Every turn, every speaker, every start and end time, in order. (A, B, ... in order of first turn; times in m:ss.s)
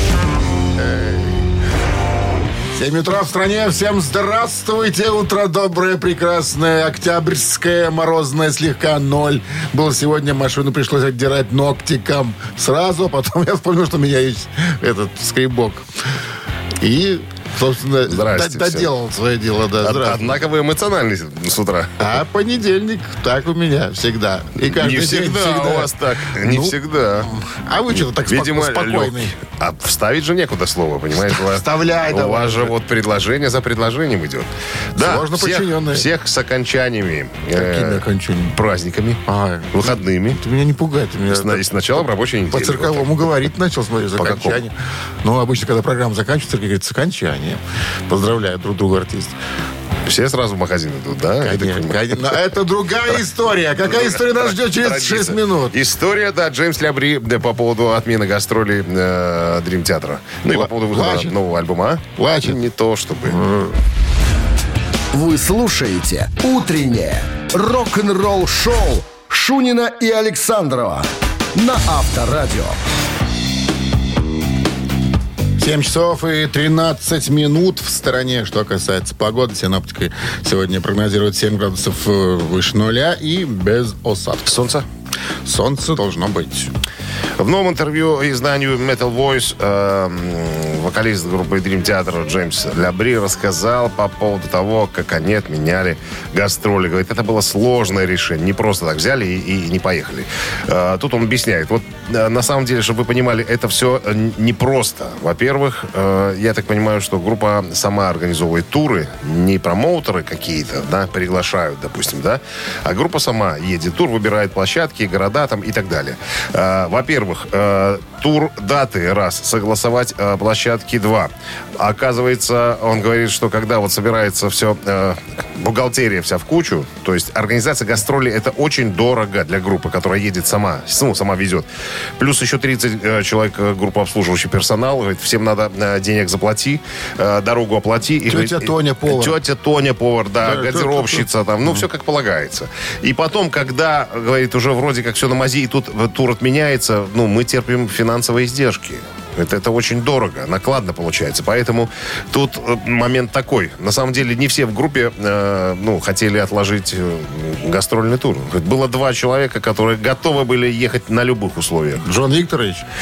0:00.8-0:01.5 A
0:02.7-0:15.9 A
0:16.8-0:20.4 A
0:18.1-0:18.9 B
0:19.8-0:22.1 B
0:22.0-0:29.4 A
0:24.6-0:27.3 B
0:28.2-0:40.4 B
0:31.3-0:32.7 A
0:35.0-0:36.1 A
0:37.5-0:38.6 A
0:39.3-0:49.4 A
0:41.3-0:43.2 B
0:44.2-0:44.6 B
0:50.0-0:52.3 B
0:51.4-0:55.8 A
0:53.9-1:03.4 B
1:00.5-1:01.4 A
1:02.2-1:02.6 A
1:03.3-1:03.8 A
1:05.1-1:12.8 C
1:15.6-1:24.6 A
1:24.5-1:24.8 B
1:25.4-1:26.7 A
1:27.4-2:42.1 B
2:18.3-2:19.4 A
2:20.4-2:21.8 A
2:42.0-2:42.9 A